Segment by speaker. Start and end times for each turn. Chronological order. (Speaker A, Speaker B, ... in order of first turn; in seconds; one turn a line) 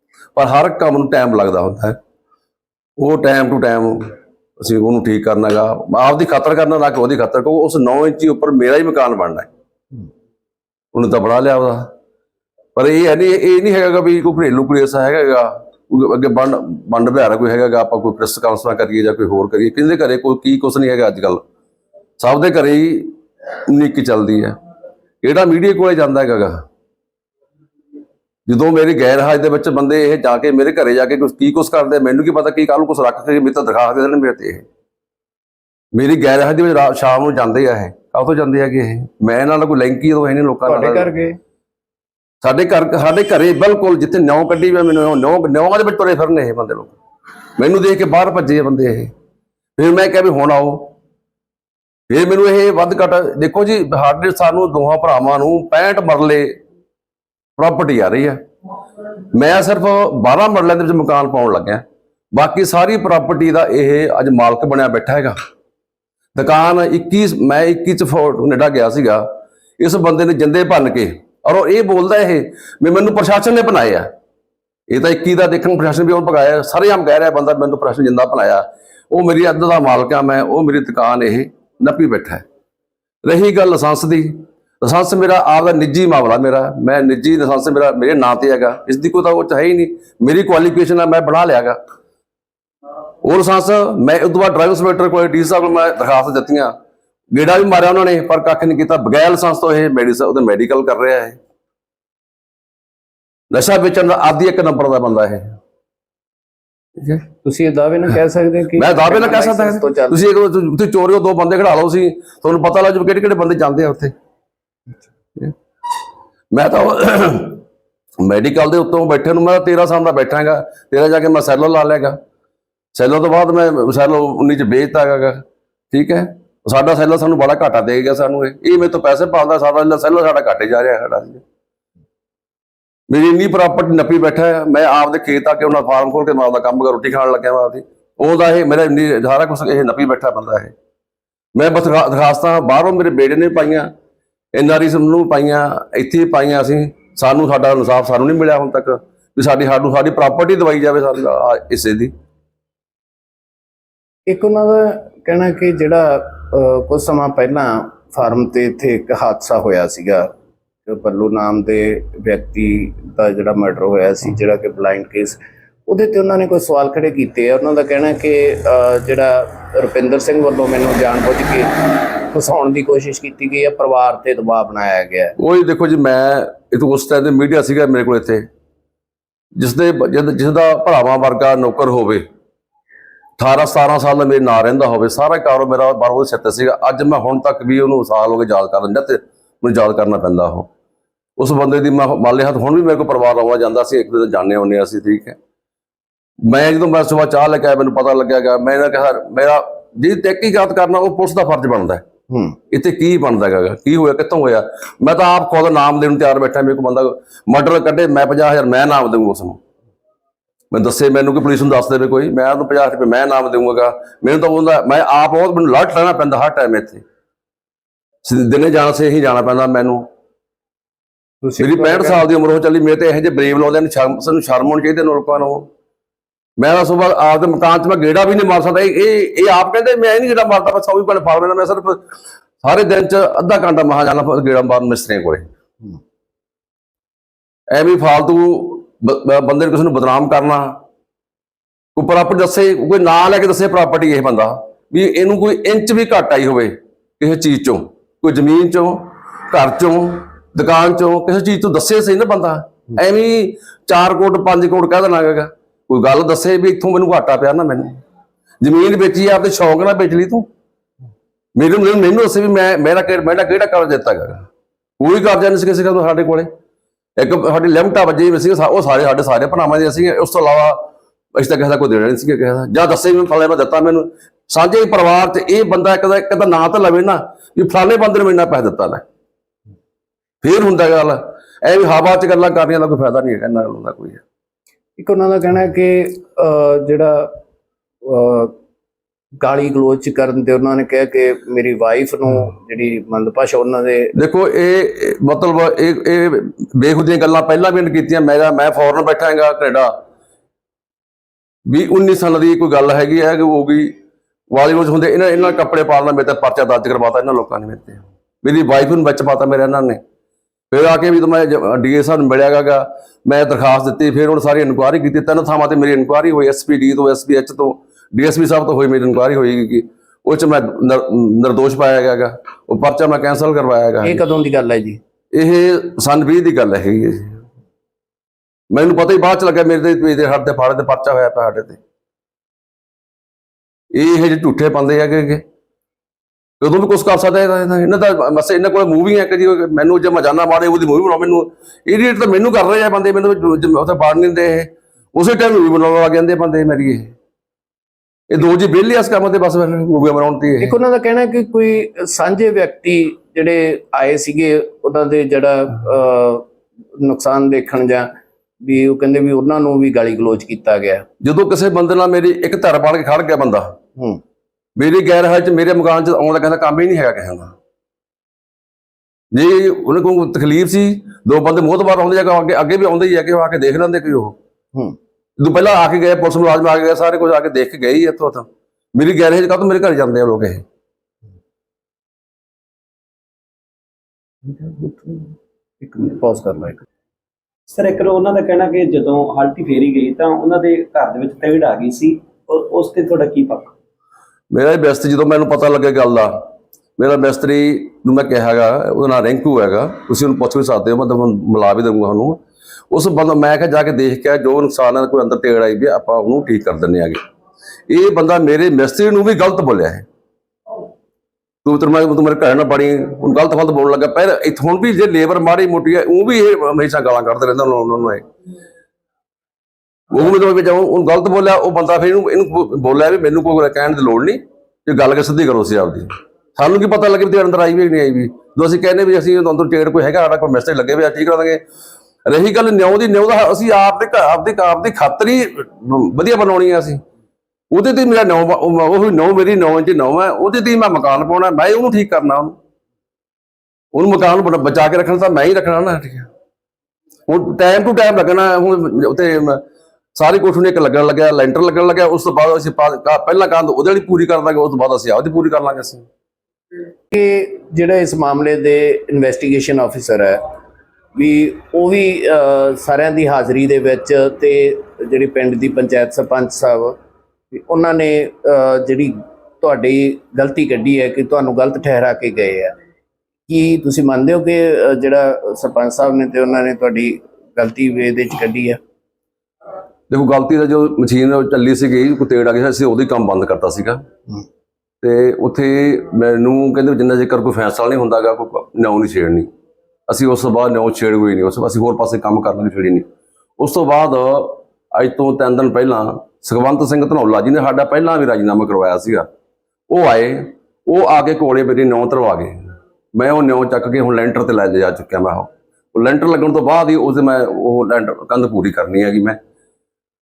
Speaker A: 0.3-2.0
Speaker A: 3.0-9.5
Speaker A: 10.9-11.9
Speaker A: 12.8-21.4
Speaker A: 22.2-24.6
Speaker A: 25.2-26.6
Speaker A: 28.5-34.6
Speaker A: 35.9-41.1
Speaker B: 40.7-41.4
Speaker A: 42.4-46.9
Speaker A: 47.6-49.1
Speaker A: 49.8-50.9
Speaker A: 52.1-56.6
Speaker A: 57.6-58.4
Speaker A: 59.3-65.4
Speaker A: 66.3-74.1
Speaker A: 74.9-82.4
Speaker A: 83.2-91.8
Speaker A: 93.2-96.8
Speaker A: 97.3-101.4
Speaker A: 103.5-105.6
Speaker B: 107.1-110.2
Speaker A: 108.8-114.1
Speaker A: 116.5-117.6
Speaker A: 118.2-122.2
Speaker A: 122.9-131.4
Speaker A: 133.1-140.7
Speaker A: 141.5-143.9
Speaker A: 144.5-152.1
Speaker B: 154.3-160.3
Speaker B: 160.9-171.7
Speaker B: 172.3-175.3
Speaker A: 175.4-178.5
Speaker A: 179.6-182.2
Speaker A: 183.4-190.7
Speaker A: 191.4-195.4
Speaker A: 196.4-202.0
Speaker B: 202.3-202.6
Speaker A: 202.7-209.6
Speaker A: 210.7-217.0
Speaker A: 218.2-220.1
Speaker B: 221.4-222.2
Speaker A: 221.6-225.7
Speaker A: 226.6-232.1
Speaker A: 232.6-235.5
Speaker A: 237.7-240.8
Speaker A: 241.9-258.0
Speaker A: 258.6-260.5
Speaker A: 261.6-264.5
Speaker A: 265.0-266.5
Speaker A: 267.2-279.0
Speaker A: 280.4-284.2
Speaker B: 285.0-287.4
Speaker B: 288.0-288.6
Speaker B: 289.4-294.1
Speaker A: 294.1-300.0
Speaker A: 301.7-304.0
Speaker A: 304.5-310.0
Speaker A: 310.7-324.2
Speaker B: 324.0-325.0
Speaker A: 325.3-327.4
Speaker A: 328.7-331.8
Speaker A: 333.9-335.4
Speaker A: 336.6-347.1
Speaker A: 348.3-350.8
Speaker B: 350.6-356.5
Speaker B: 357.0-361.0
Speaker A: 361.2-363.8
Speaker A: 364.8-367.5
Speaker A: 369.3-374.4
Speaker A: 375.4-380.6
Speaker B: 384.4-386.8
Speaker C: 387.7-393.7
Speaker A: 394.5-396.5
Speaker A: 397.0-407.2
Speaker A: 407.9-410.1
Speaker A: 411.6-418.3
Speaker A: 420.1-431.6
Speaker A: 432.2-437.0
Speaker A: 437.7-442.6
Speaker A: 443.9-446.3
Speaker A: 447.3-449.6
Speaker A: 450.1-456.1
Speaker B: 457.1-460.5
Speaker B: 461.2-467.0
Speaker B: 467.5-472.8
Speaker B: 473.5-478.8
Speaker A: 480.1-484.0
Speaker A: 485.0-489.5
Speaker A: 490.1-493.1
Speaker A: 493.6-499.3
Speaker A: 499.9-509.4